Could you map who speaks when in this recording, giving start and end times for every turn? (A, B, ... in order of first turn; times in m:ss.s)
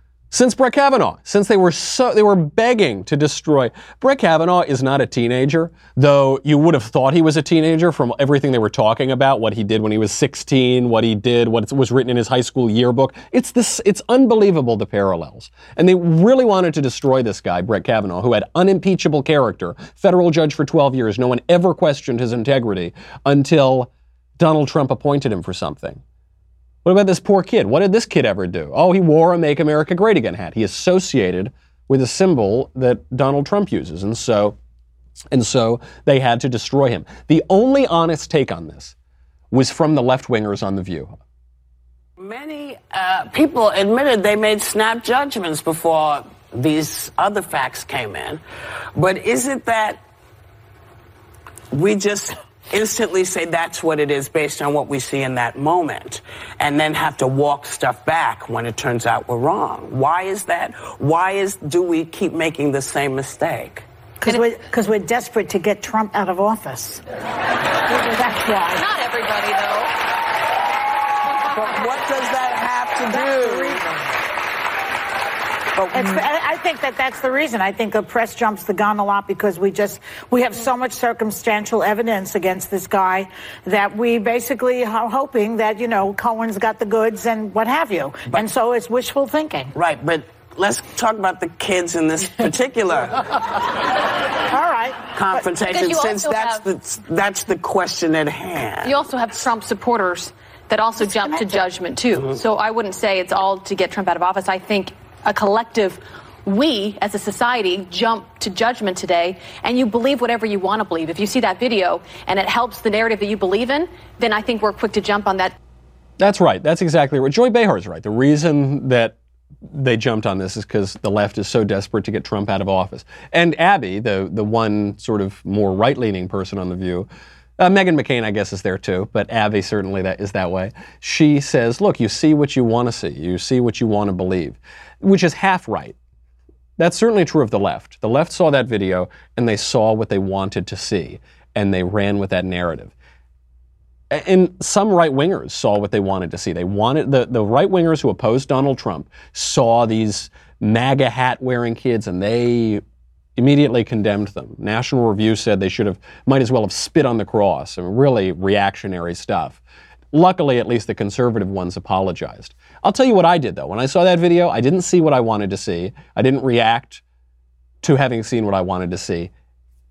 0:00.3-0:26.0 A
0:26.8-0:34.6 A
0:35.3-0:39.0 A
0:39.5-0:41.1 A
0:42.2-0:48.4 B
0:49.0-0:50.0 B
0:51.7-1:03.9 B
1:04.2-1:07.0 C
1:07.9-1:08.8 C
1:08.7-1:09.9 D
1:11.5-1:13.8 B
1:13.2-1:13.8 C
1:15.8-1:16.2 B
1:15.9-1:29.7 C
1:29.7-1:33.3 B
1:34.5-1:35.4 C
1:35.2-1:39.0 B
1:35.7-1:36.6 D
1:38.8-1:55.6 D
1:56.2-1:59.2 A
1:59.7-2:07.1 A
2:07.6-2:16.0 A
2:16.8-2:22.9 A
2:24.1-2:32.8 A
2:33.4-2:39.6 A
2:40.1-2:47.0 A
2:47.8-2:49.3 A